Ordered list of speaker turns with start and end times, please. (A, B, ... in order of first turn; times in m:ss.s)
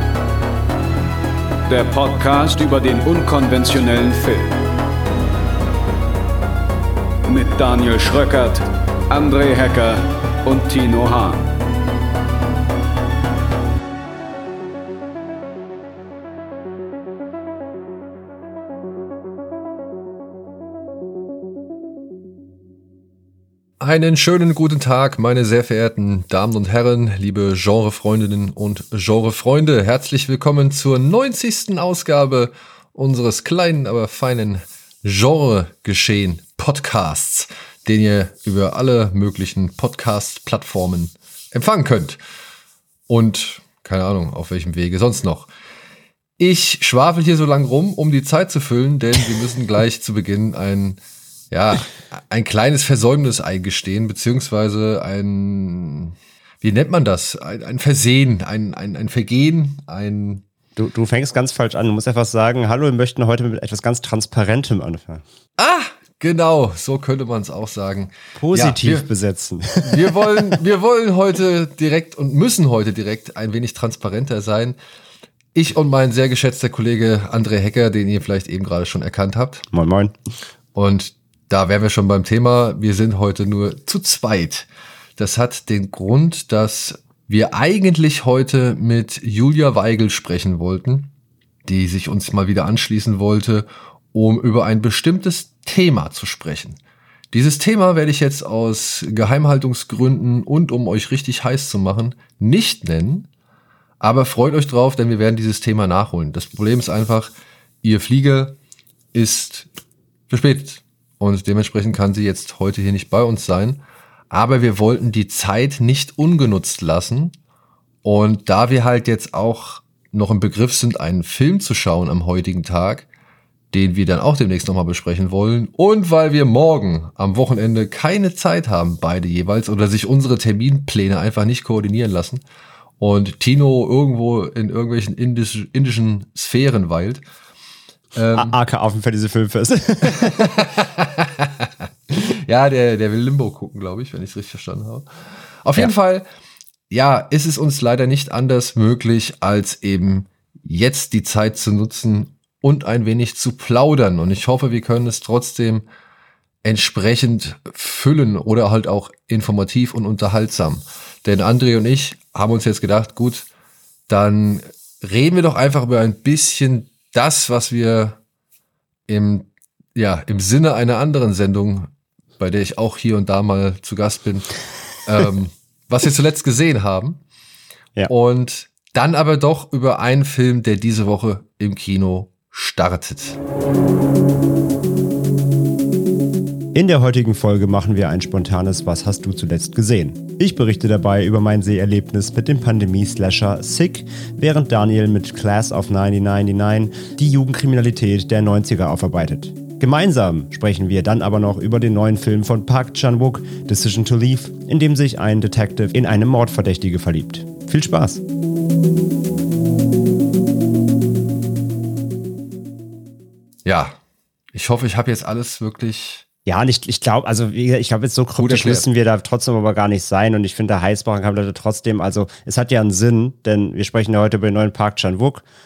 0:01.7-0:04.6 A
0:07.2-0:11.4 A
0:23.8-0:42.2 B
0:43.1-0:45.5 B
0:46.4-0:51.0 B
0:51.5-1:00.4 B
1:00.8-1:05.2 C
1:05.6-1:09.1 B
1:08.4-1:10.6 C
1:09.8-1:14.8 B
1:15.5-1:19.6 B
1:19.7-1:20.1 C
1:20.7-1:31.1 B
1:31.6-1:36.8 B
1:37.3-1:43.3 B
1:44.0-1:48.6 B
1:49.1-1:49.7 B
1:50.3-1:57.3 B
1:58.0-2:03.0 B
2:03.7-2:12.4 B
2:13.0-2:17.2 B
2:18.1-2:18.5 B
2:18.3-2:20.5 C
2:20.0-2:25.0 B
2:25.6-2:26.2 B
2:26.9-2:35.8 B
2:36.6-2:43.5 B
2:44.1-2:48.2 B
2:49.1-2:54.5 B
2:55.0-2:57.2 B
2:58.1-3:03.4 B
3:06.7-3:28.2 C
3:33.6-3:34.0 B
3:34.5-3:36.2 B
3:36.4-3:45.4 C
3:38.4-3:38.9 B